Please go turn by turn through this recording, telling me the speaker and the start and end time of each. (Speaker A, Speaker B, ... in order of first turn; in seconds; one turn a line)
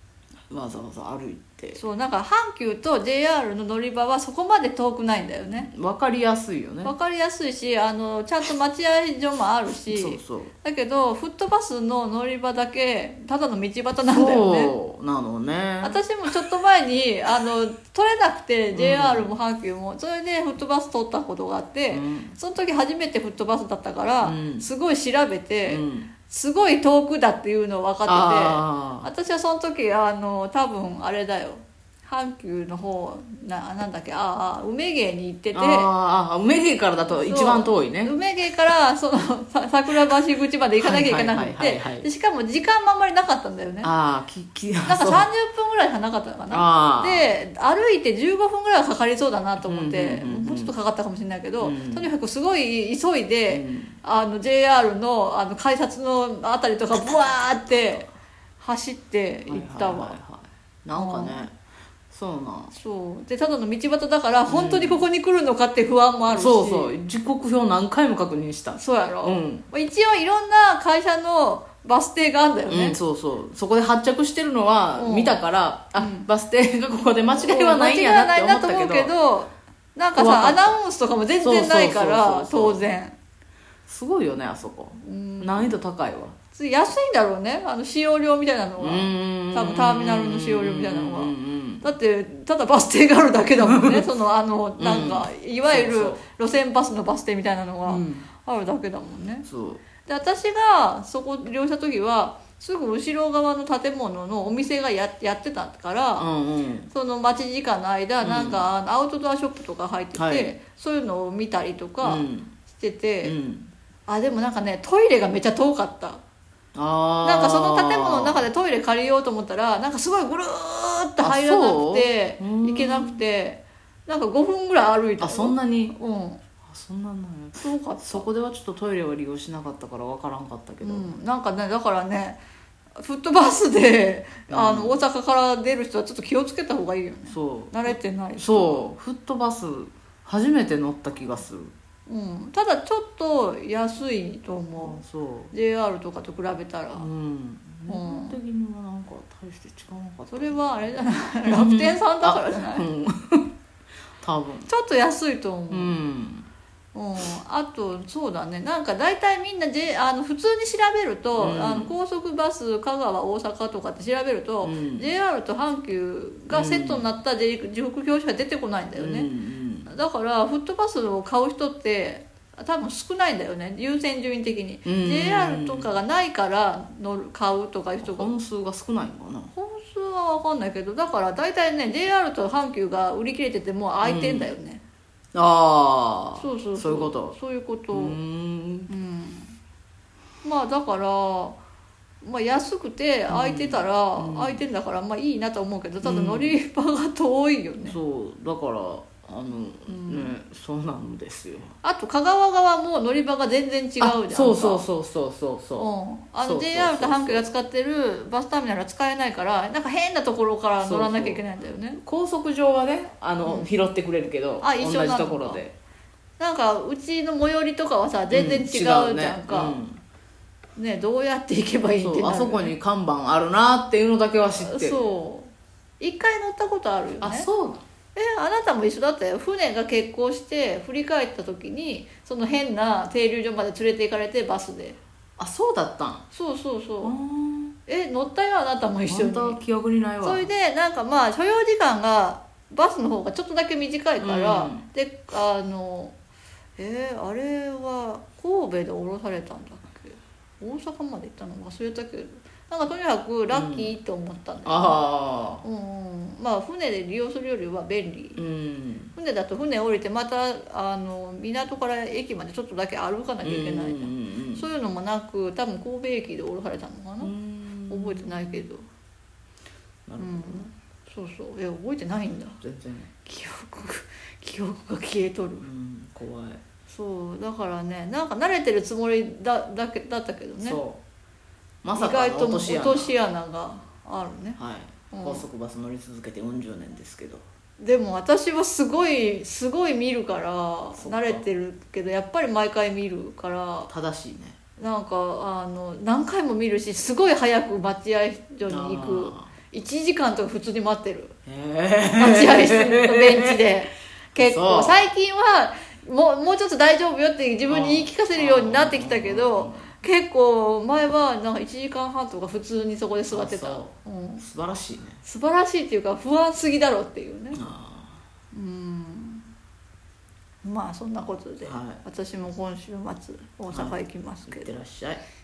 Speaker A: 0.5-1.8
Speaker B: 1.8-5.7
Speaker A: 5.7-6.9
Speaker B: 6.8-14.7
Speaker A: 9.9-10.5
Speaker A: 14.1-16.4
Speaker B: 15.8-35.9
Speaker A: 18.7-19.3
Speaker A: 21.9-22.4
Speaker A: 24.2-24.7
Speaker A: 25.7-26.1
Speaker A: 28.1-29.1
Speaker A: 35.5-38.1
Speaker B: 37.1-43.9
Speaker A: 40.8-42.1
Speaker A: 43.8-45.3
Speaker B: 44.9-58.1
Speaker A: 46.5-47.3
Speaker A: 49.6-50.7
Speaker A: 51.6-52.1
Speaker A: 53.5-54.0
Speaker A: 57.2-58.0
Speaker B: 58.6-60.2
Speaker A: 59.5-61.5
Speaker B: 61.0-61.5
Speaker A: 62.1-62.7
Speaker B: 62.7-67.0
Speaker A: 64.5-65.0
Speaker A: 66.3-69.7
Speaker B: 68.8-73.0
Speaker A: 72.7-79.1
Speaker B: 75.0-75.4
Speaker B: 76.0-76.3
Speaker B: 77.3-83.2
Speaker A: 80.1-80.8
Speaker A: 81.4-82.9
Speaker A: 83.9-86.4
Speaker B: 85.0-85.8
Speaker B: 86.5-99.5
Speaker A: 88.8-91.9
Speaker A: 93.6-94.1
Speaker A: 94.8-96.2
Speaker A: 97.9-98.3
Speaker A: 99.5-99.8
Speaker B: 100.0-106.3
Speaker A: 106.2-106.9
Speaker B: 106.9-113.4
Speaker A: 108.2-108.7
Speaker A: 110.2-110.6
Speaker A: 112.0-112.5
Speaker A: 113.2-113.7
Speaker B: 114.1-116.2
Speaker A: 116.8-118.5
Speaker B: 117.2-126.4
Speaker A: 121.2-123.2
Speaker A: 125.2-126.0
Speaker A: 126.6-131.1
Speaker B: 127.6-128.2
Speaker B: 130.8-132.4
Speaker B: 133.0-138.8
Speaker A: 134.5-135.0
Speaker A: 137.3-141.7
Speaker B: 142.1-145.0
Speaker A: 144.8-145.5
Speaker B: 145.5-147.1
Speaker A: 147.0-153.5
Speaker B: 147.9-148.4
Speaker B: 150.3-152.9
Speaker A: 154.2-154.7
Speaker B: 154.7-156.0
Speaker A: 155.7-156.5
Speaker B: 156.9-169.3
Speaker A: 161.4-161.9
Speaker A: 164.6-165.1
Speaker A: 166.5-167.1
Speaker A: 169.0-169.9
Speaker B: 169.9-178.3
Speaker A: 174.9-175.9
Speaker A: 178.0-179.5
Speaker B: 179.5-184.8
Speaker A: 184.0-184.5
Speaker A: 185.3-187.4
Speaker B: 186.4-188.2
Speaker A: 187.9-188.9
Speaker B: 188.9-189.6
Speaker B: 190.4-191.6
Speaker B: 192.2-198.0
Speaker A: 193.3-194.6
Speaker A: 196.0-196.6
Speaker A: 197.8-201.7
Speaker B: 199.9-200.3
Speaker B: 201.8-204.9
Speaker A: 204.0-205.9
Speaker B: 205.8-212.0
Speaker A: 206.4-207.5
Speaker A: 210.8-215.7
Speaker B: 213.4-213.7
Speaker B: 214.6-215.6
Speaker B: 216.4-219.8
Speaker A: 218.3-220.0
Speaker B: 220.8-222.7
Speaker A: 222.0-225.0
Speaker B: 224.6-227.5
Speaker A: 227.2-227.8
Speaker B: 228.1-235.0
Speaker A: 235.4-236.2
Speaker B: 236.3-237.2
Speaker A: 237.0-237.8
Speaker B: 237.9-239.6
Speaker A: 239.1-240.5
Speaker B: 240.2-246.1
Speaker A: 244.2-244.8
Speaker B: 246.8-255.0
Speaker A: 253.5-253.9
Speaker A: 254.6-255.6
Speaker B: 255.6-258.4
Speaker A: 258.4-259.1
Speaker B: 259.1-267.3
Speaker A: 263.4-264.6
Speaker A: 267.2-268.7
Speaker B: 267.9-268.8
Speaker A: 270.1-270.7
Speaker B: 270.2-272.6
Speaker A: 272.6-273.1
Speaker B: 273.2-275.7
Speaker A: 275.6-276.6
Speaker B: 276.9-280.8
Speaker A: 280.6-281.0
Speaker A: 281.8-283.1
Speaker B: 281.9-284.6
Speaker A: 284.6-287.4
Speaker B: 285.1-285.4
Speaker B: 287.8-293.9
Speaker A: 291.0-291.4
Speaker A: 293.9-294.6
Speaker B: 294.8-301.4
Speaker A: 298.7-299.5
Speaker A: 301.5-303.6
Speaker B: 302.1-314.4
Speaker A: 304.4-305.1
Speaker A: 307.7-309.9
Speaker A: 313.3-315.2
Speaker B: 315.2-317.6
Speaker A: 317.5-318.2
Speaker B: 318.5-319.5
Speaker B: 320.6-324.7
Speaker A: 321.6-322.0
Speaker A: 323.7-325.2